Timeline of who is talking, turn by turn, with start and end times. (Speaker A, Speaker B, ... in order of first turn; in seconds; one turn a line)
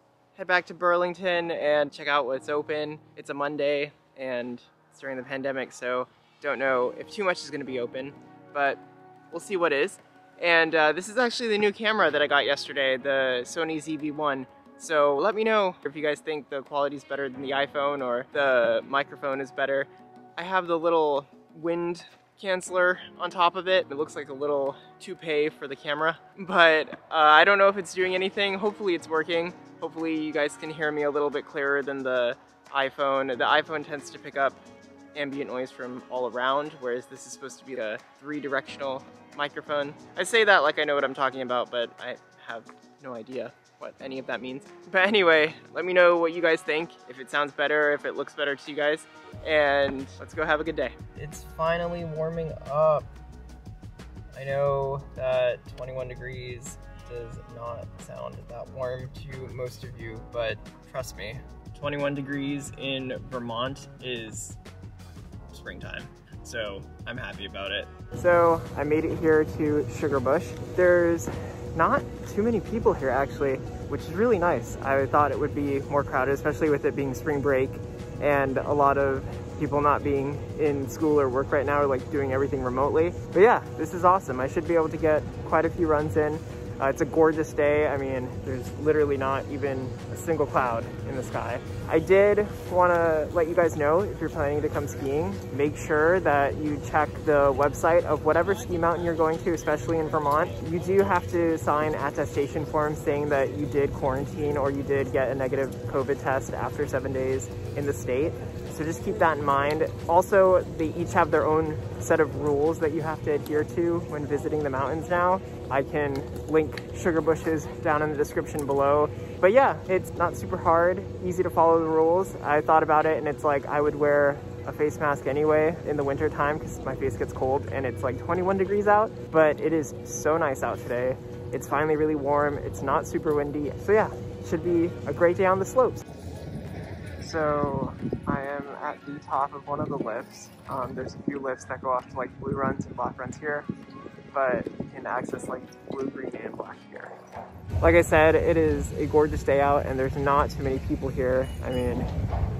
Speaker A: 0.3-34.6
Speaker A: 35.1-53.1
Speaker A: 54.3-64.6
Speaker A: 65.5-136.0
Speaker A: 137.2-143.7
Speaker A: 144.3-147.1
Speaker A: 147.8-152.1